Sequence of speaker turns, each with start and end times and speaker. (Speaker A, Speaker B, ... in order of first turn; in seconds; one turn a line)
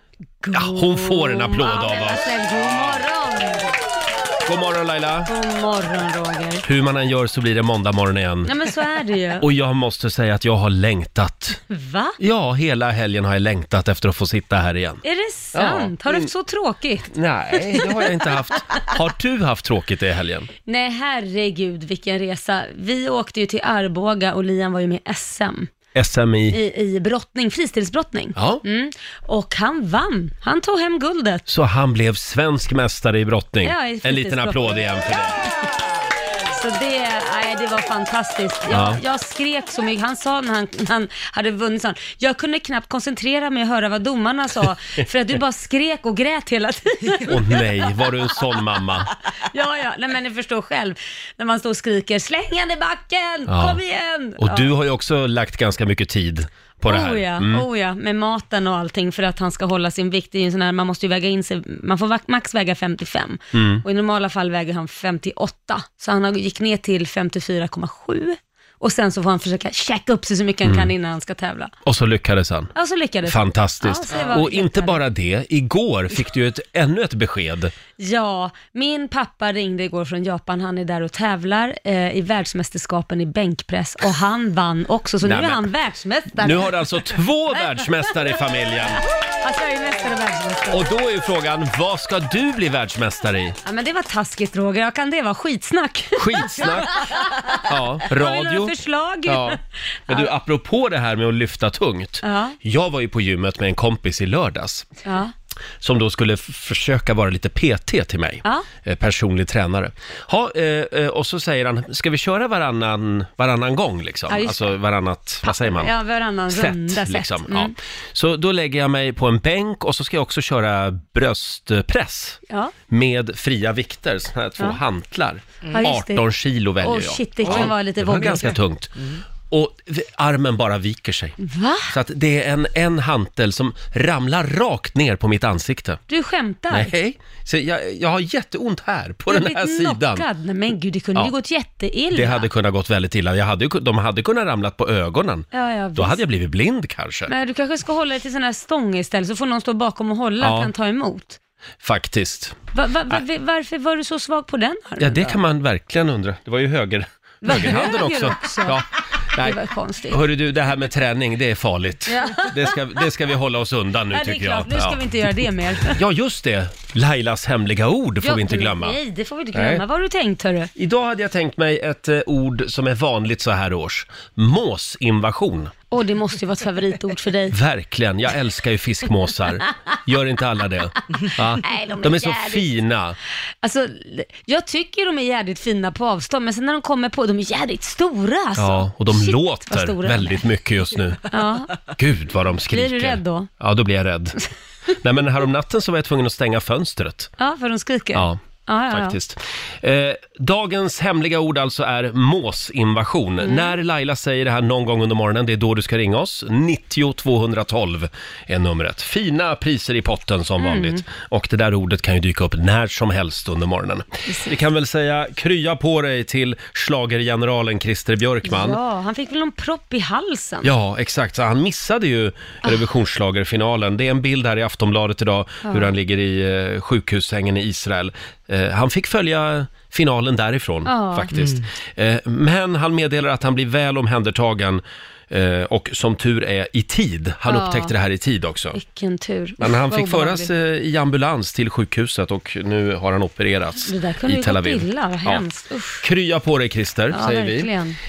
Speaker A: 0.4-3.7
Speaker B: 0.5-3.0
Speaker B: 4.5-5.3
Speaker A: 5.3-6.6
Speaker B: 6.6-8.5
Speaker A: 8.5-9.4
Speaker B: 9.4-11.6
Speaker A: 11.7-12.2
Speaker B: 12.2-15.0
Speaker A: 15.0-17.1
Speaker B: 15.5-16.3
Speaker B: 17.1-20.5
Speaker A: 17.7-18.0
Speaker A: 20.7-25.7
Speaker B: 25.9-26.6
Speaker A: 26.5-31.4
Speaker B: 28.4-28.6
Speaker B: 31.5-35.4
Speaker A: 33.6-34.9
Speaker A: 36.5-47.9
Speaker B: 38.7-39.0
Speaker B: 47.3-49.1
Speaker A: 49.4-54.7
Speaker B: 53.5-53.8
Speaker B: 54.4-57.6
Speaker A: 56.9-71.7
Speaker B: 63.5-63.8
Speaker B: 71.9-72.7
Speaker A: 72.8-75.0
Speaker B: 73.3-77.7
Speaker A: 78.0-87.2
Speaker B: 85.2-85.6
Speaker B: 86.4-89.0
Speaker A: 89.4-90.8
Speaker B: 90.7-93.5
Speaker A: 93.7-100.3
Speaker B: 96.2-97.0
Speaker B: 97.7-98.7
Speaker B: 99.3-104.9
Speaker A: 102.2-102.6
Speaker A: 105.0-105.3
Speaker B: 105.8-115.9
Speaker A: 114.3-114.8
Speaker A: 115.4-117.7
Speaker B: 116.5-128.9
Speaker A: 125.7-126.3
Speaker A: 126.8-128.6
Speaker B: 129.5-131.4
Speaker A: 131.4-131.9
Speaker B: 131.9-136.0
Speaker A: 136.1-136.9
Speaker B: 136.7-140.2
Speaker A: 139.3-142.5
Speaker B: 142.1-147.3
Speaker A: 145.5-146.2
Speaker A: 147.3-151.4
Speaker B: 150.4-150.7
Speaker B: 151.8-152.6
Speaker A: 152.8-155.4
Speaker B: 155.0-165.0
Speaker A: 157.4-160.2
Speaker A: 162.1-162.8
Speaker A: 164.1-166.0
Speaker B: 165.9-169.0
Speaker A: 168.2-170.7
Speaker B: 169.5-169.8
Speaker B: 170.8-175.7
Speaker A: 175.9-177.6
Speaker B: 177.5-183.2
Speaker A: 181.6-182.7
Speaker A: 183.6-190.4
Speaker B: 188.6-191.3
Speaker A: 191.3-191.8
Speaker B: 192.0-194.4
Speaker A: 192.7-193.5
Speaker B: 195.0-197.3
Speaker A: 197.4-199.2
Speaker B: 198.9-218.8
Speaker A: 203.4-203.8
Speaker A: 210.6-211.0
Speaker A: 218.4-220.7
Speaker B: 220.6-238.8
Speaker A: 230.9-231.3
Speaker A: 237.5-237.9
Speaker A: 238.8-240.5
Speaker B: 239.6-245.4
Speaker A: 243.9-246.0
Speaker B: 246.0-247.7
Speaker A: 247.1-248.0